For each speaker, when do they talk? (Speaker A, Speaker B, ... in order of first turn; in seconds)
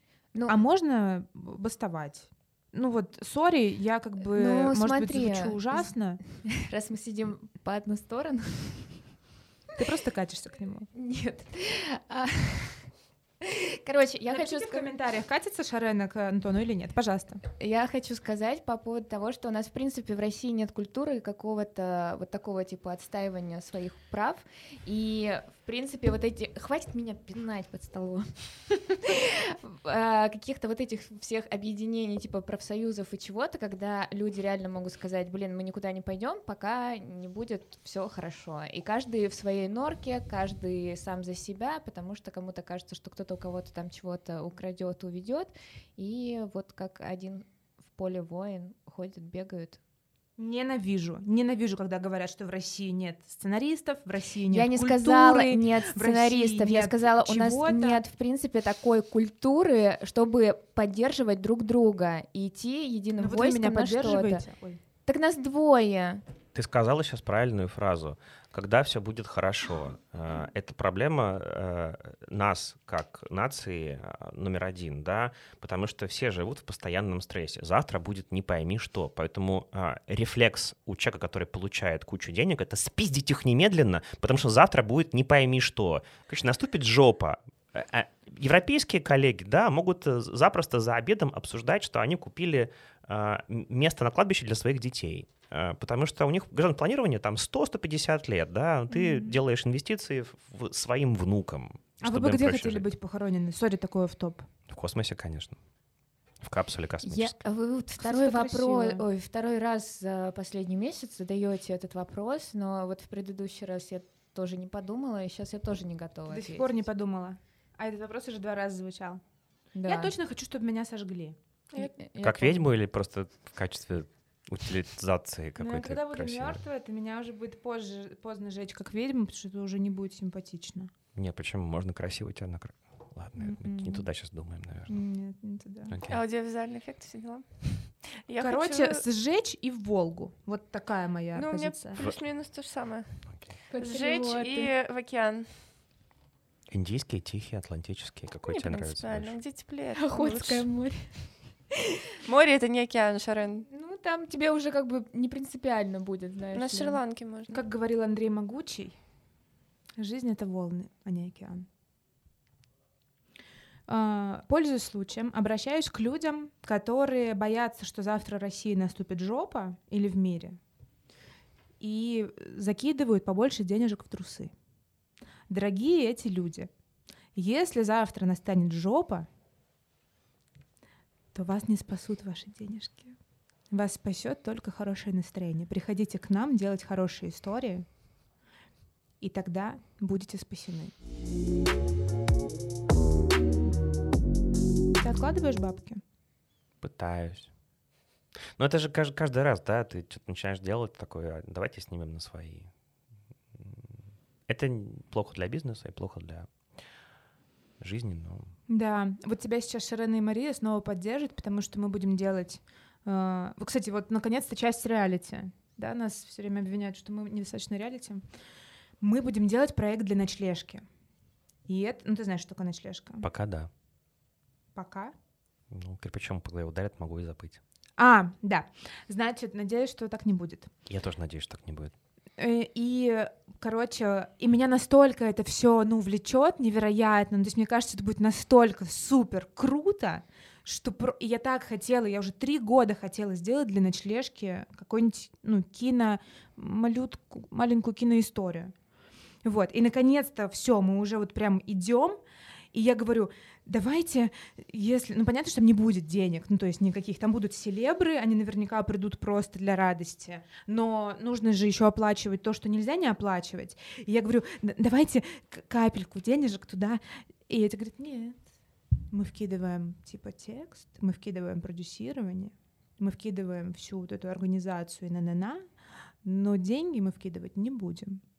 Speaker A: 0.5-6.2, 9.8-10.9, 14.3-17.4, 50.4-58.0, 63.2-64.8, 98.9-99.4, 102.0-104.5, 108.0-109.0, 116.3-119.2, 119.8-121.4, 125.6-130.9, 133.4-134.1, 134.9-135.9, 138.4-142.0, 157.5-159.0, 160.0-161.7, 163.9-170.6, 171.8-174.5, 175.5-176.7, 177.3-179.3, 181.3-183.2, 183.7-187.9, 189.2-190.9, 195.0-196.0, 208.7-218.3, 219.0-220.9, 221.7-223.3, 224.8-225.1, 228.0-230.7, 232.4-248.7, 249.4-252.2, 252.7-268.4, 269.1-275.7, 276.2-278.2
Speaker B: 4.2-9.1, 10.9-14.9, 17.6-49.8, 54.5-64.5, 65.0-66.2, 107.0-116.7, 119.8-120.1, 121.8-122.7, 143.7-144.7, 150.0-151.8, 153.7-157.0
Speaker C: 66.5-102.9, 104.7-105.6, 106.4-107.4, 122.2-126.6, 131.2-135.0, 135.9-136.2, 143.3-143.6, 146.7-149.4, 196.8-197.5, 198.6-202.7, 203.5-206.5, 207.8-208.5, 223.2-223.7, 225.7-227.6, 230.9-231.9
Speaker D: 136.1-139.0, 141.3-145.8, 148.5-150.7, 152.2-153.7, 156.5-157.6